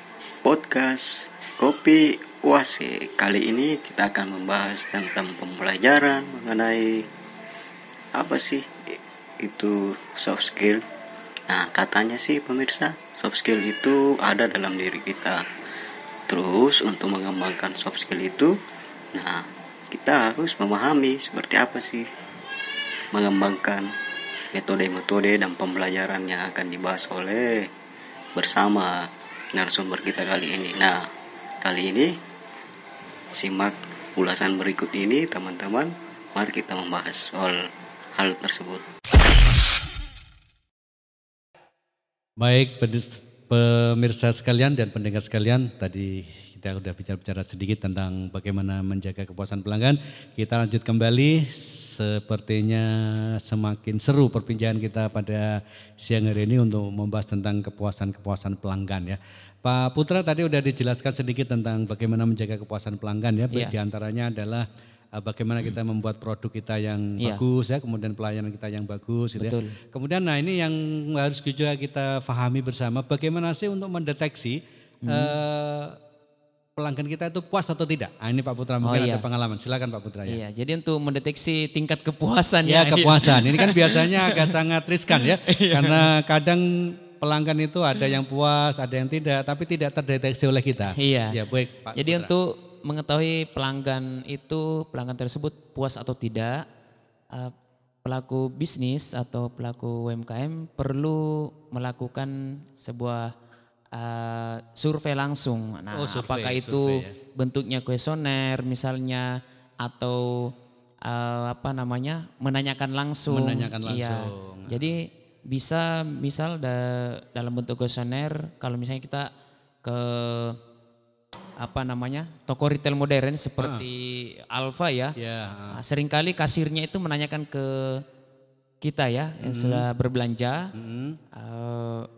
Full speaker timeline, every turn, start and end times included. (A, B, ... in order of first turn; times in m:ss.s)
0:00.4-0:06.9 A
0:08.2-0:08.6 A
0:09.4-0:10.8 A
0:11.5-0:15.4 A
0:16.3-0:18.5 A
0:19.1-0:19.4 A
0:19.9-0:22.0 A
0:23.1-0:23.9 A
0:24.5-0:27.6 A
0:28.3-0:28.9 A
0:29.5-0:31.0 A
0:31.6-0:32.1 A
0:33.4-0:37.5 A
0:38.2-0:38.8 A
0:42.4-0:52.9 B
0:53.4-1:04.6 B
1:05.2-1:14.6 B
1:09.4-1:09.8 C
1:15.0-1:15.3 C
1:15.1-1:15.9 B
1:16.8-1:20.4 B
1:18.8-1:19.2 C
1:20.3-1:24.5 C
1:22.6-1:26.6 B
1:25.1-1:26.0 C
1:27.1-1:32.3 B
1:31.0-1:31.4 C
1:31.9-1:36.6 C
1:38.0-1:43.3 C
1:43.9-1:49.3 C
1:45.9-1:47.1 B
1:49.8-1:50.3 C
1:51.0-1:59.3 C
1:53.3-1:54.9 B
1:59.8-2:00.6 C
2:01.6-2:05.1 C
2:03.6-2:03.9 B
2:05.2-2:05.8 B
2:05.7-2:07.6 C
2:08.8-2:10.7 C
2:09.4-2:09.8 B
2:10.8-2:11.2 B
2:11.4-2:12.0 C